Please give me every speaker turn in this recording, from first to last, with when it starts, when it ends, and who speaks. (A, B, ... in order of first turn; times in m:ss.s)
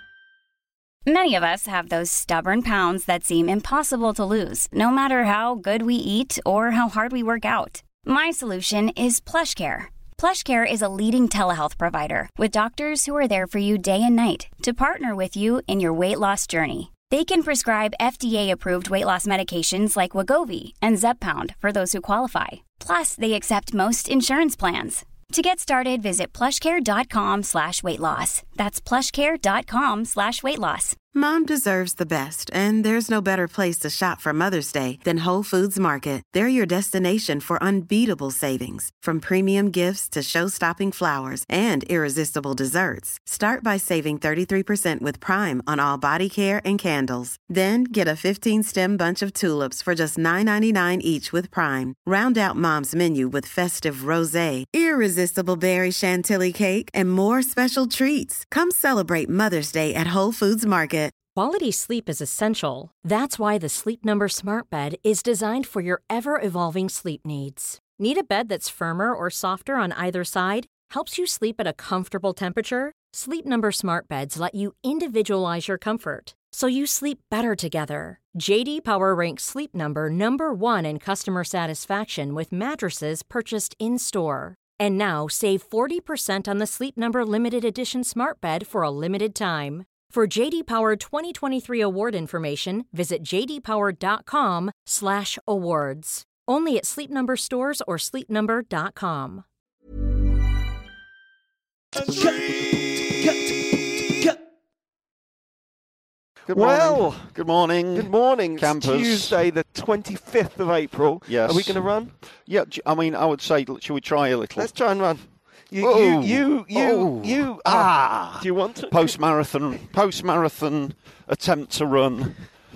0:01.0-0:31.0 A
0:31.1-1:01.1 B
1:01.3-1:39.4 C
1:42.0-1:44.4 D
1:46.5-1:49.4 E
1:46.5-1:47.4 D
1:47.9-1:52.2 D
1:51.2-1:54.8 E
1:54.6-1:59.2 D
1:55.8-2:02.6 E